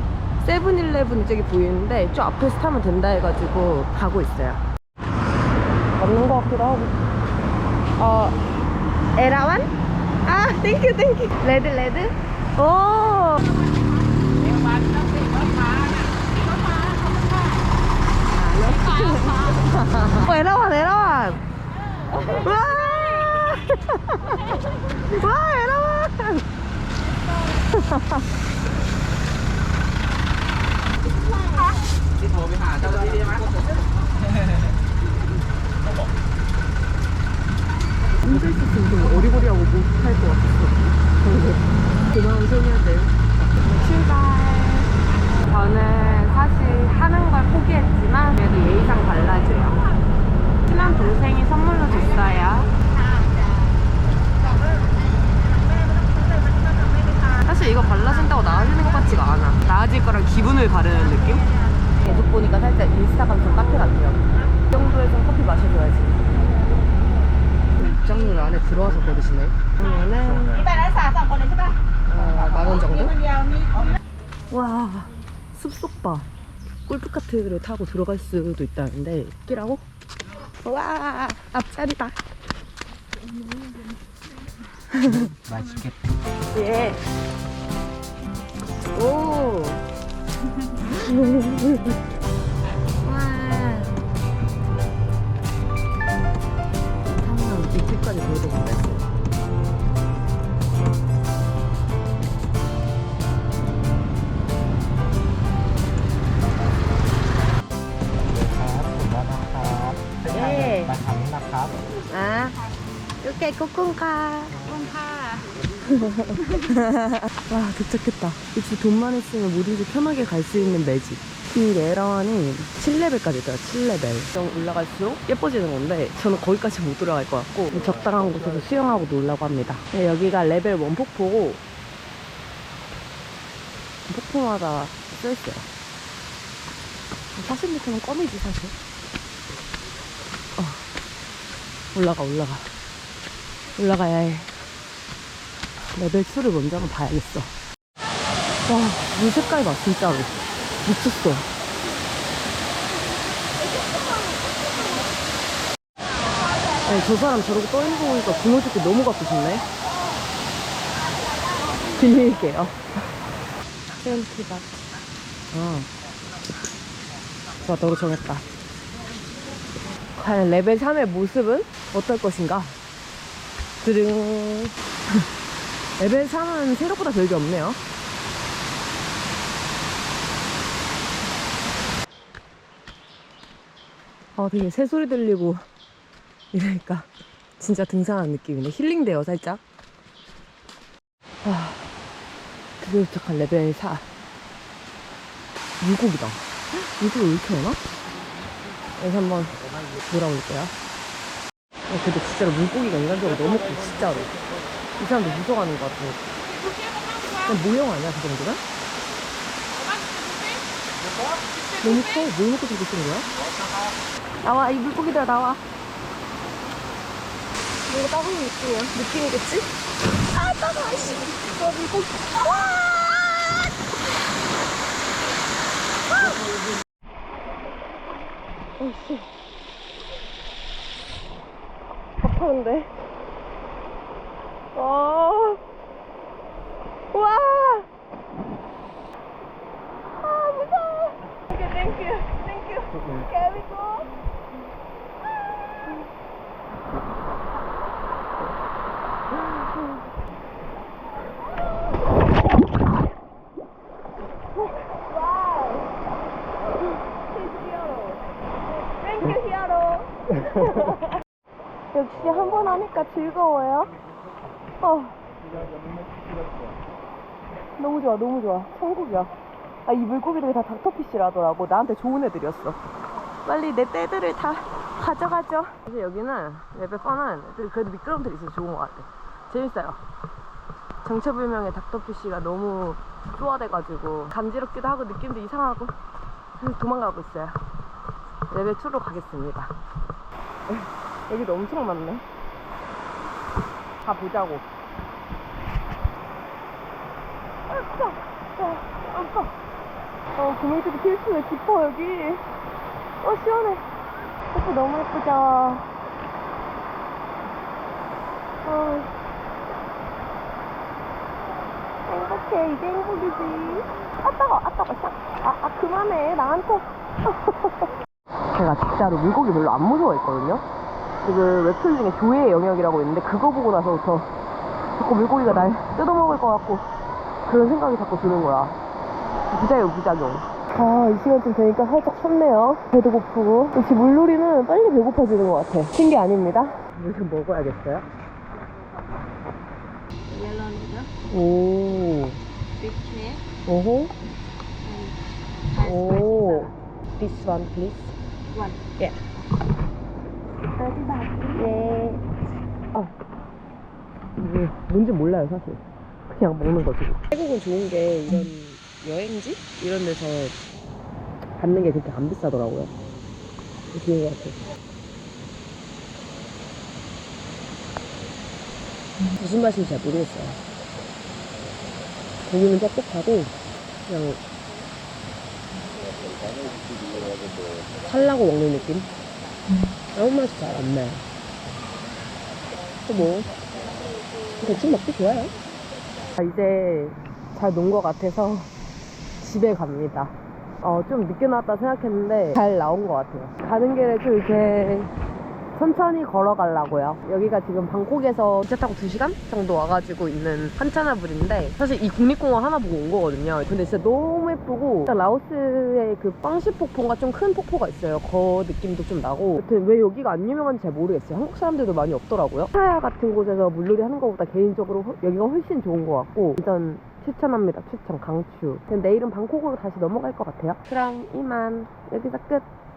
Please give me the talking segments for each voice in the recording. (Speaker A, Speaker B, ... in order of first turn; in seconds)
Speaker A: 0.4-4.6, 6.0-7.0, 8.0-8.4, 9.1-9.7, 10.2-13.6, 18.3-21.4, 22.1-26.4, 27.7-28.3, 38.2-49.9, 50.6-52.8, 57.3-66.3, 67.7-71.1, 72.0-73.2, 74.5-76.3, 76.9-79.8, 80.6-82.2, 84.9-85.3, 86.5-87.0, 88.9-89.8, 91.0-92.0, 93.0-94.0, 97.1-99.1, 110.3-110.9, 112.0-112.6, 113.2-114.6, 115.8-131.6, 134.1-135.7, 137.3-138.7, 140.6-140.8, 141.9-142.7, 143.8-144.5, 145.9-147.5, 148.7-151.5, 156.8-159.6, 161.9-162.9, 164.0-164.7, 165.5-165.9, 167.6-168.4, 170.1-172.8, 173.8-175.2, 176.0-177.8, 184.3-185.6, 186.5-187.1, 187.6-189.6, 191.4-191.9, 192.8-194.1, 195.8-197.8, 199.0-200.7, 201.9-204.3, 205.0-206.2, 207.3-208.6, 211.8-213.3, 214.4-215.6, 217.9-219.7, 220.3-222.3, 228.8-229.3, 232.2-232.9, 234.7-235.6, 237.1-237.9, 240.1-244.1, 255.1-255.8, 257.3-258.2, 259.0-261.1, 261.9-263.9, 264.8-265.1, 267.8-269.3, 269.9-272.8, 273.4-280.0, 281.0-285.9, 286.6-287.6, 288.5-289.7, 290.7-292.2, 294.0-294.6, 297.7-299.5, 300.4-302.4, 303.2-303.8, 304.5-305.8, 308.6-309.1, 312.1-317.9, 318.5-320.6, 321.2-324.3, 324.9-326.9, 327.4-328.8, 329.5-338.1, 341.2-342.4, 343.6-344.1, 345.7-348.1, 348.8-349.2, 351.4-352.2, 354.4-360.5, 361.6-362.9, 363.9-364.6, 369.3-370.6, 372.4-373.5, 374.1-374.4, 378.0-379.1, 380.1-381.2, 383.0-383.6, 384.6-385.5, 386.3-388.7, 389.4-395.1, 395.7-422.6
Speaker B: 14.5-17.4, 54.5-55.0, 55.7-57.1, 70.9-71.7, 114.7-115.4, 209.9-210.6, 340.3-341.1, 342.8-343.4, 344.8-345.1, 345.8-346.6, 350.8-351.6
Speaker C: 85.5-85.9, 108.2-111.8